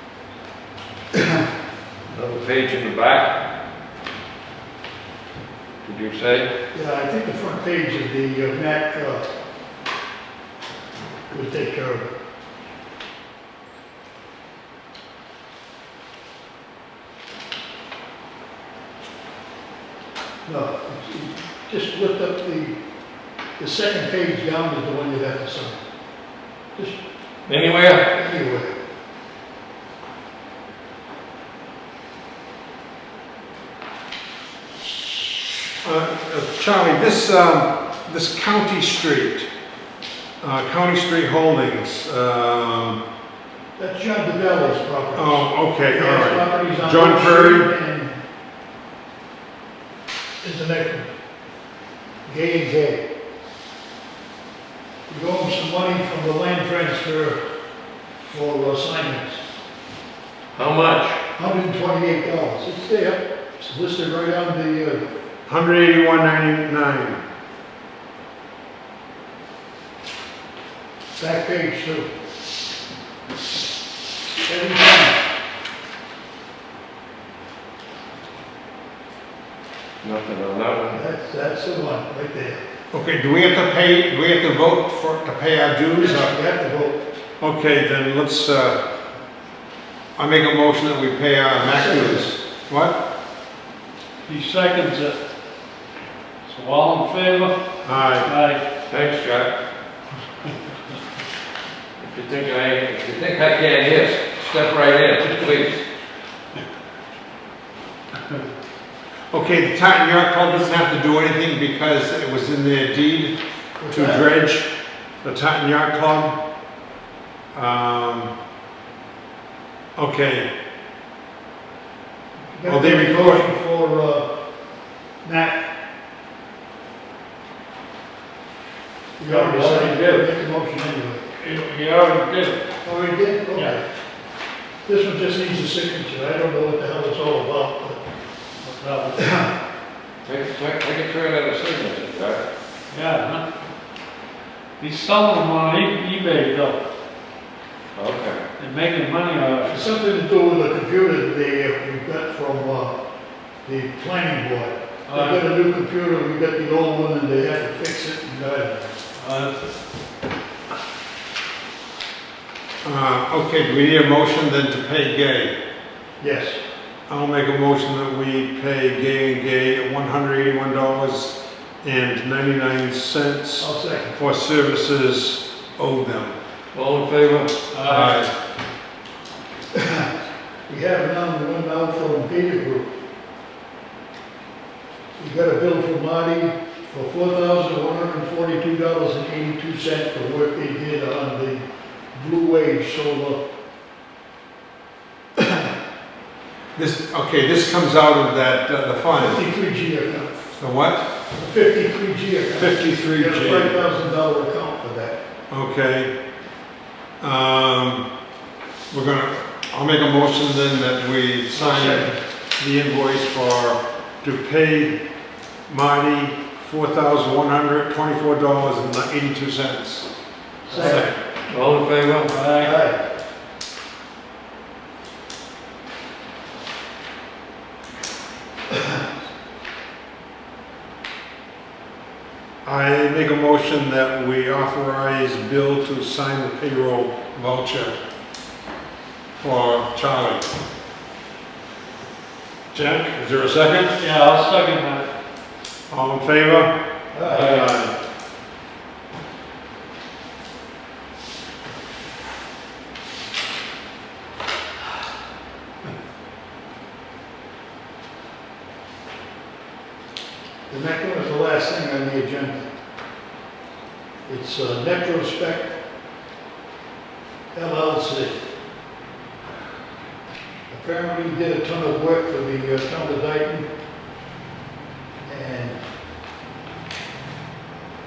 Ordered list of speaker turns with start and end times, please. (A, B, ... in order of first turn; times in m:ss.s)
0:01.1-0:01.4 A
0:02.1-0:03.4 B
0:05.8-0:06.5 B
0:06.7-0:09.3 A
0:11.3-0:12.1 A
0:20.5-0:22.8 A
0:23.6-0:25.8 A
0:27.5-0:28.1 B
0:28.1-0:28.7 A
0:35.0-0:39.5 C
0:40.4-0:43.0 C
0:43.8-0:48.2 A
0:45.2-0:47.7 C
0:50.4-0:51.1 A
0:52.3-0:53.0 A
0:55.1-0:57.4 A
0:58.3-0:59.4 A
1:00.5-1:01.2 B
1:01.3-1:05.1 A
1:05.5-1:07.2 C
1:11.2-1:12.1 A
1:14.4-1:15.2 A
1:20.0-1:21.0 B
1:20.9-1:22.6 A
1:22.9-1:26.4 C
1:26.0-1:27.0 A
1:27.4-1:28.8 C
1:30.2-1:33.0 C
1:31.6-1:32.4 A
1:34.2-1:35.2 D
1:36.5-1:37.6 D
1:37.8-1:38.3 C
1:38.2-1:38.6 D
1:38.9-1:39.5 B
1:42.0-1:45.8 B
1:49.3-1:53.4 C
1:53.8-1:54.3 A
1:53.9-1:54.7 C
1:55.2-1:56.4 C
1:57.5-1:58.3 C
2:00.0-2:00.5 C
2:02.5-2:04.3 A
2:02.6-2:03.5 C
2:05.2-2:05.7 A
2:09.2-2:11.2 A
2:09.3-2:10.3 D
2:11.4-2:12.6 D
2:12.8-2:13.9 A
2:14.9-2:18.0 A
2:18.6-2:19.4 D
2:19.2-2:19.5 A
2:20.2-2:22.4 B
2:22.9-2:23.4 D
2:24.8-2:26.8 D
2:28.0-2:28.4 B
2:28.6-2:29.8 D
2:29.7-2:33.0 A
2:33.6-2:39.0 A
2:35.1-2:35.4 D
2:39.2-2:39.6 D
2:42.8-2:45.6 C
2:46.2-2:46.6 A
2:47.1-2:56.4 C
2:53.6-2:54.1 A
2:56.7-2:57.7 B
2:57.7-2:58.2 D
2:57.8-2:58.3 C
2:59.7-3:00.1 A
3:00.7-3:02.9 A
3:05.2-3:13.4 A
3:15.4-3:15.7 A
3:16.8-3:19.4 C
3:19.2-3:20.4 A
3:20.6-3:21.0 C
3:21.4-3:25.2 A
3:22.6-3:23.8 C
3:25.5-3:26.1 C
3:27.2-3:28.0 C
3:28.9-3:35.0 C
3:31.5-3:32.2 A
3:35.7-3:40.1 C
3:40.7-3:41.0 A
3:40.7-3:41.0 D
3:40.7-3:41.2 C
3:41.5-3:42.4 B
3:42.3-3:42.8 D
3:42.5-3:43.0 A
3:52.6-3:58.0 C
3:59.4-4:00.4 C
4:02.7-4:04.0 C
4:04.0-4:05.1 D
4:05.9-4:06.7 C
4:07.1-4:07.8 A
4:07.2-4:07.9 C
4:20.7-4:22.7 A
4:24.3-4:25.7 A
4:27.5-4:28.4 A
4:30.7-4:33.7 A
4:35.3-4:35.8 A